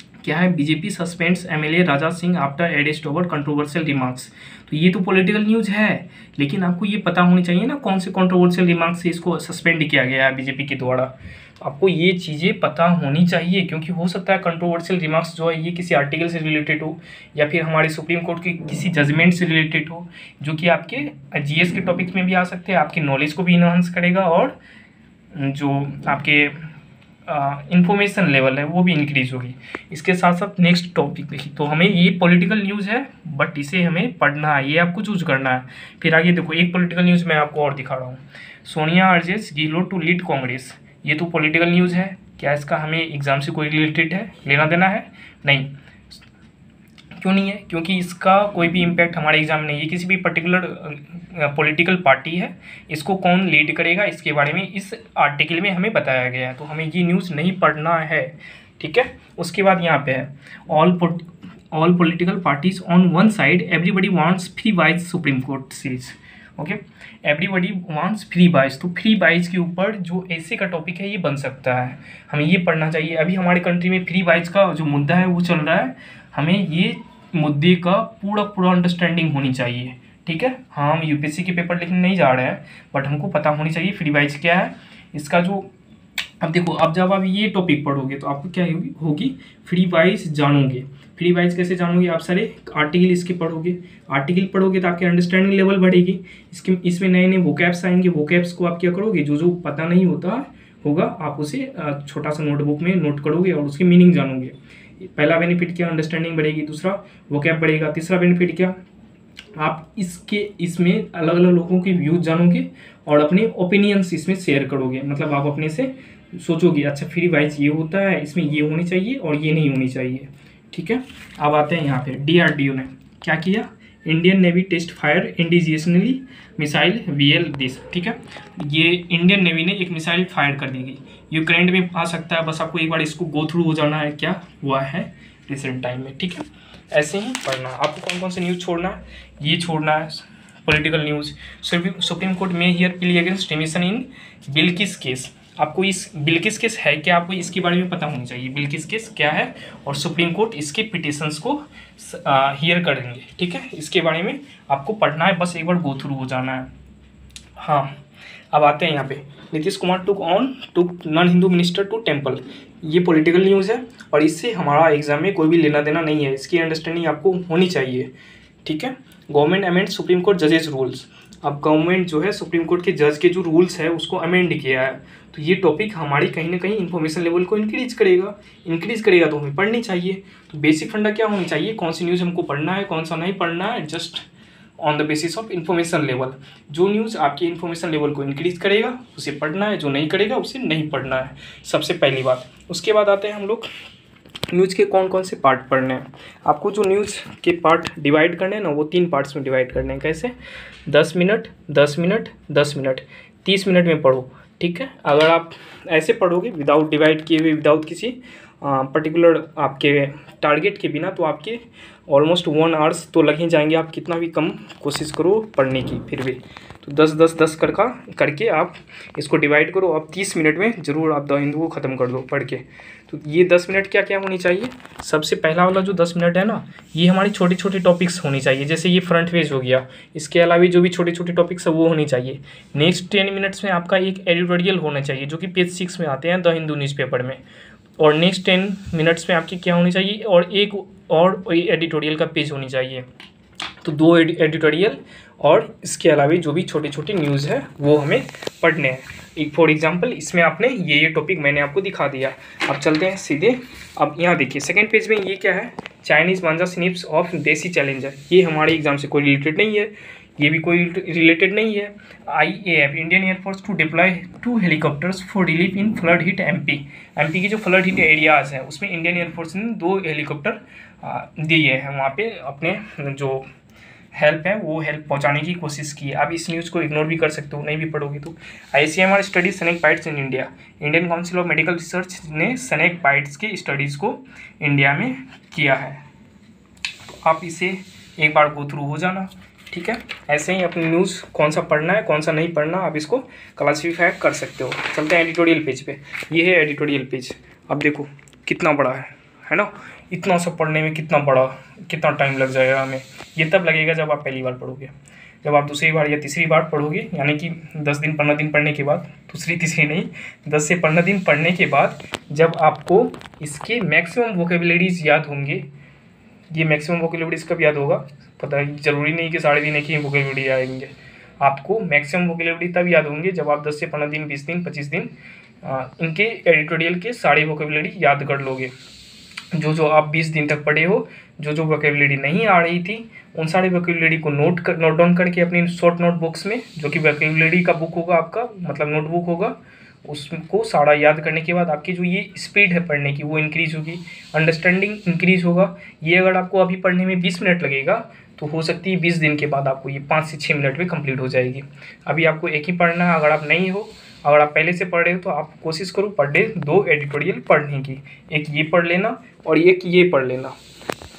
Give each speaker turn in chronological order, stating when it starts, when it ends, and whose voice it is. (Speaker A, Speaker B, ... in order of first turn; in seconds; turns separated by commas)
Speaker A: 0.2-24.6, Speaker A: 25.3-26.7, Speaker A: 27.3-45.7, Speaker A: 47.2-85.7, Speaker A: 86.4-108.7, Speaker A: 109.5-156.7, Speaker A: 157.6-157.9, Speaker A: 158.5-168.1, Speaker A: 168.6-184.2, Speaker A: 184.8-193.7, Speaker A: 194.5-200.3, Speaker A: 200.9-237.4, Speaker A: 238.0-243.0, Speaker A: 243.8-273.4, Speaker A: 274.1-286.0, Speaker A: 287.2-315.7, Speaker A: 316.5-328.7, Speaker A: 329.5-360.6